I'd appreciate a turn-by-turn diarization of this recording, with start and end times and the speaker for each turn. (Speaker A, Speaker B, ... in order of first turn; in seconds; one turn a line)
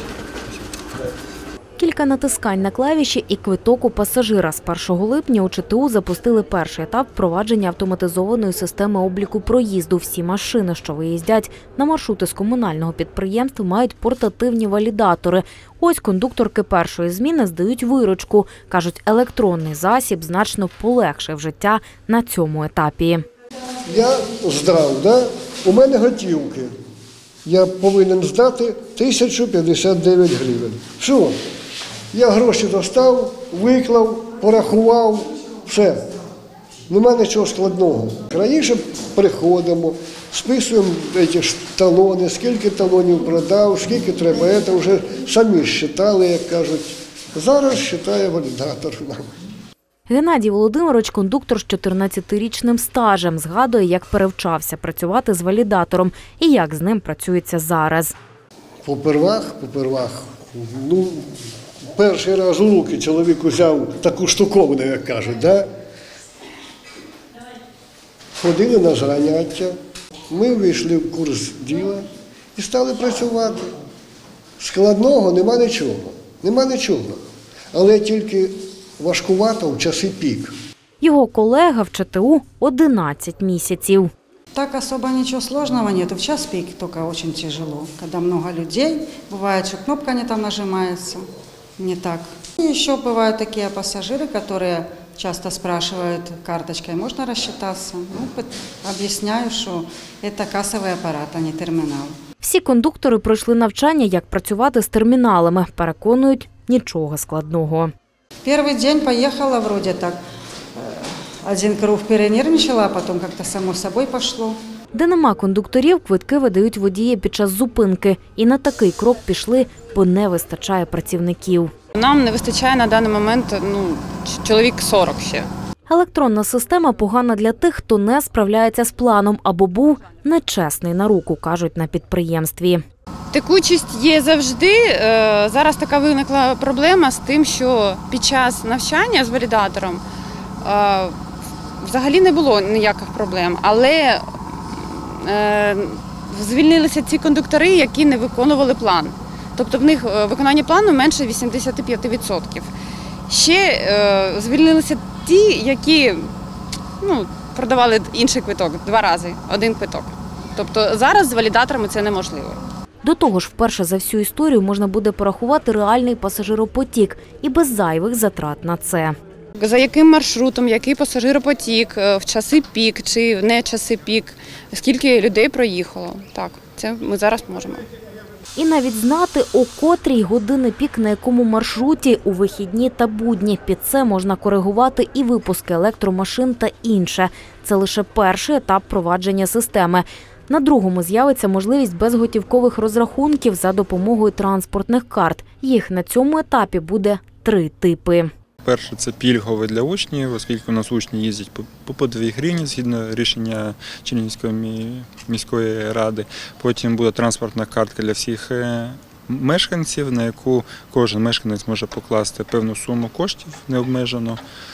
Speaker A: 1.8-23.2
Speaker B: 23.9-26.7
Speaker B: 27.4-31.4
Speaker B: 32.1-36.1
Speaker B: 36.9-49.3
Speaker A: 50.1-58.1
Speaker B: 58.9-61.4
Speaker B: 62.0-65.7
Speaker B: 68.4-69.8
Speaker B: 70.3-73.7
Speaker B: 74.6-77.2
Speaker B: 77.7-80.5
Speaker A: 81.0-84.1
Speaker C: 84.5-91.2
Speaker C: 91.8-102.1
Speaker A: 102.4-107.9
Speaker C: 108.5-110.2
Speaker C: 110.8-114.6
Speaker A: 114.9-121.7
Speaker D: 122.0-125.5
Speaker A: 125.9-132.8
Speaker D: 133.3-140.0
Speaker D: 140.6-141.2
Speaker D: 141.8-152.7
Speaker D: 153.3-156.3
Speaker D: 157.0-162.6
Speaker A: 163.0-169.2
Speaker D: 169.6-177.9
Speaker A: 178.6-198.3
Speaker E: 198.6-214.4